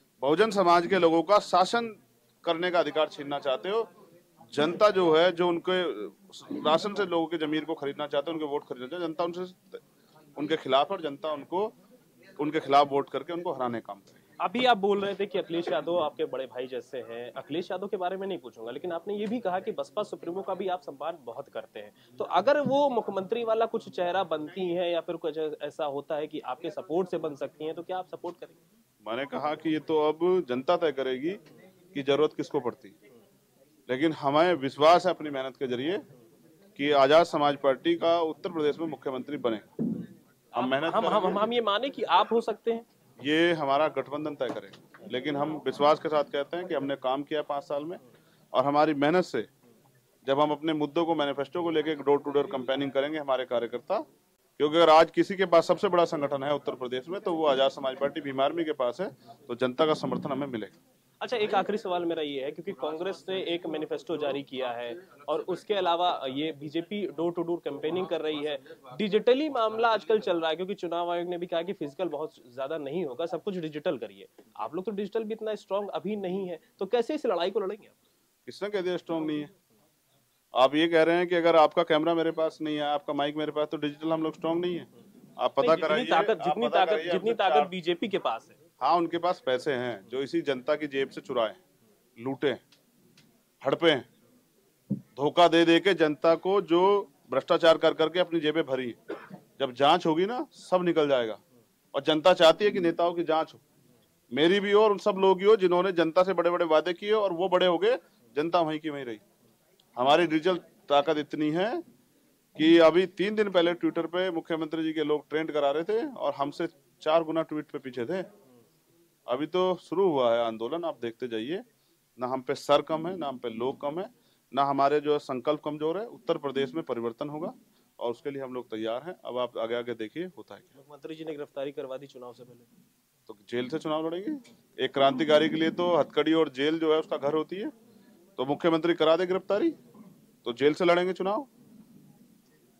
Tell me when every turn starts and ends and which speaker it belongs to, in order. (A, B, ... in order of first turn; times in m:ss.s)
0:00.2-0:03.9 A
0:04.5-0:09.8 A
0:10.4-0:11.8 A
0:12.4-0:14.2 A
0:14.4-0:28.6 B
0:29.0-0:31.4 A
0:31.9-0:32.9 A
0:33.9-0:36.0 A
0:36.8-0:39.7 A
0:40.6-0:41.5 A
0:40.6-0:42.8 B
0:43.2-0:48.0 A
0:48.5-0:49.5 A
0:50.2-0:54.0 A
0:54.6-1:00.8 A
1:01.2-1:17.9 B
1:18.5-1:19.5 A
1:20.5-1:24.9 A
1:25.4-1:27.7 A
1:25.6-1:28.6 B
1:28.8-1:31.6 A
1:32.2-1:32.6 A
1:33.6-1:34.1 A
1:35.2-1:39.0 A
1:39.6-1:41.4 A
1:41.9-1:43.6 A
1:44.3-1:49.2 A
1:50.0-1:51.8 A
1:52.6-1:58.3 A
1:59.3-2:01.6 A
2:02.2-2:10.7 A
2:10.8-2:12.7 B
2:13.3-2:17.7 A
2:18.4-2:19.8 A
2:20.4-2:21.5 A